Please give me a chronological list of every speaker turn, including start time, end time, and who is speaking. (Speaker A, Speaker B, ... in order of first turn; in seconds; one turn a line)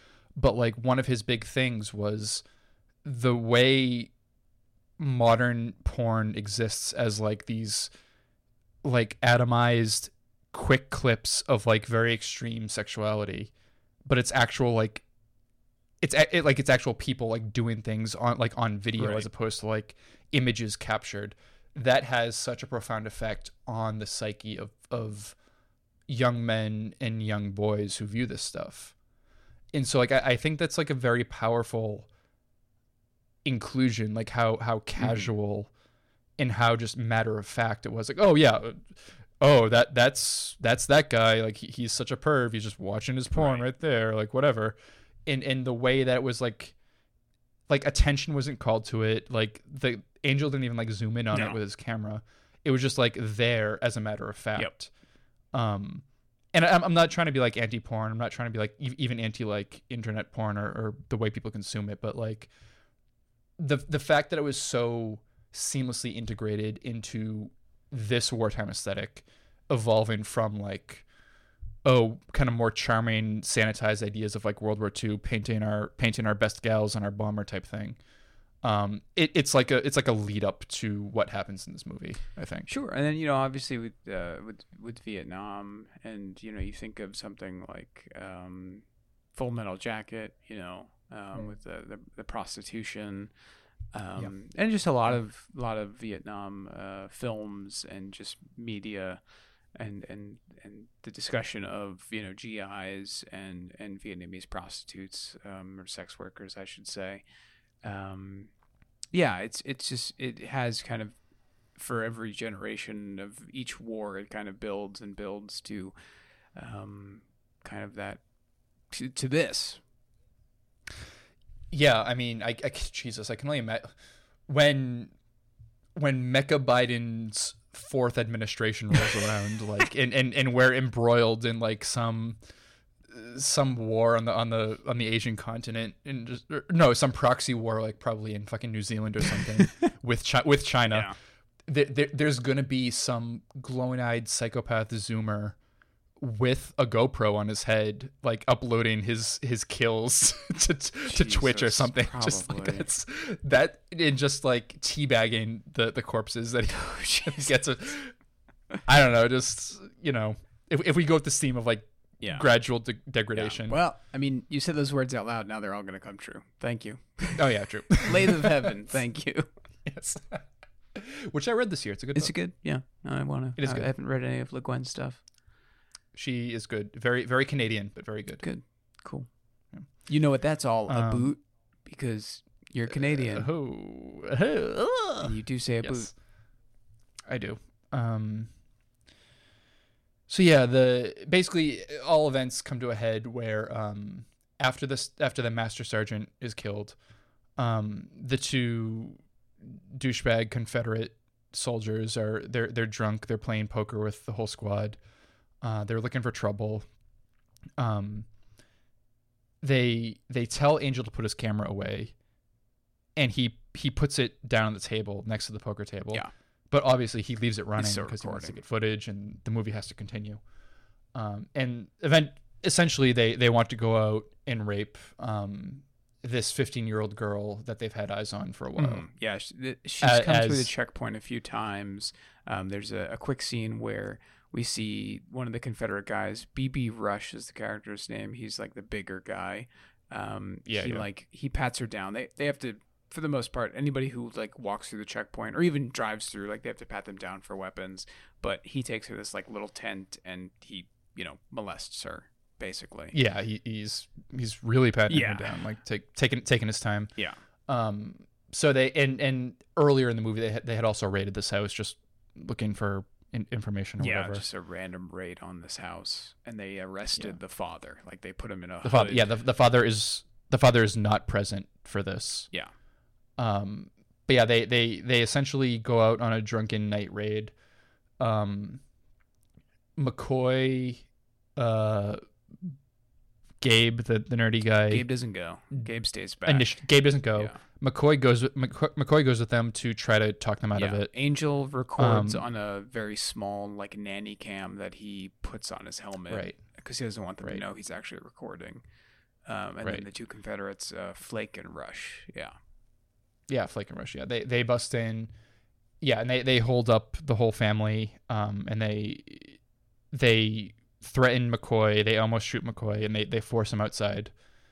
Speaker A: 0.3-2.5
Speaker A: 3.0-4.1
Speaker A: 5.0-7.9
Speaker A: 8.8-13.5
Speaker A: 14.1-15.0
Speaker A: 16.0-25.4
Speaker B: 19.0-19.3
Speaker A: 26.1-28.9
Speaker A: 29.7-32.1
Speaker A: 33.5-35.7
Speaker B: 35.0-35.3
Speaker A: 36.4-46.8
Speaker B: 43.3-43.7
Speaker A: 47.7-54.9
Speaker B: 51.3-51.6
Speaker A: 55.5-62.5
Speaker A: 63.6-71.1
Speaker A: 71.8-78.0
Speaker A: 78.6-82.7
Speaker B: 82.7-93.3
Speaker B: 93.9-107.2
Speaker B: 107.8-108.5
Speaker B: 109.1-111.2
Speaker B: 111.7-115.9
Speaker B: 116.5-118.2
Speaker B: 118.9-119.8
Speaker A: 121.7-124.0
Speaker A: 124.5-125.1
Speaker A: 126.0-132.4
Speaker A: 133.1-141.1
Speaker B: 140.9-141.1
Speaker A: 141.7-145.6
Speaker A: 146.2-158.1
Speaker B: 151.1-152.9
Speaker B: 156.7-157.6
Speaker A: 158.8-163.8
Speaker B: 162.2-162.5
Speaker B: 163.3-169.5
Speaker A: 167.4-168.5
Speaker A: 169.8-172.3
Speaker B: 172.1-175.2
Speaker A: 173.6-173.9
Speaker A: 176.1-178.4
Speaker B: 178.4-179.3
Speaker A: 179.7-180.1
Speaker B: 180.1-183.5
Speaker A: 180.9-181.3
Speaker A: 182.9-186.1
Speaker B: 185.2-186.1
Speaker A: 187.3-188.5
Speaker A: 190.3-197.0
Speaker A: 197.6-205.0
Speaker A: 205.6-206.9
Speaker A: 207.8-208.3
Speaker A: 209.6-212.1
Speaker A: 213.2-220.4
Speaker B: 217.8-218.6
Speaker A: 221.1-229.1
Speaker B: 228.8-253.2
Speaker A: 230.0-230.7
Speaker A: 240.7-241.1
Speaker A: 253.1-257.1
Speaker B: 255.1-255.6
Speaker A: 257.7-264.4
Speaker B: 264.0-269.4
Speaker A: 268.8-272.5
Speaker A: 273.4-277.5
Speaker A: 278.2-278.8
Speaker A: 280.0-282.7
Speaker A: 283.6-285.1
Speaker B: 284.9-286.7
Speaker A: 286.4-291.1
Speaker B: 287.3-287.6
Speaker B: 290.7-298.8
Speaker A: 292.0-292.4
Speaker A: 296.3-296.6
Speaker B: 299.4-302.6
Speaker A: 303.5-305.3
Speaker A: 306.0-309.6
Speaker A: 310.1-314.3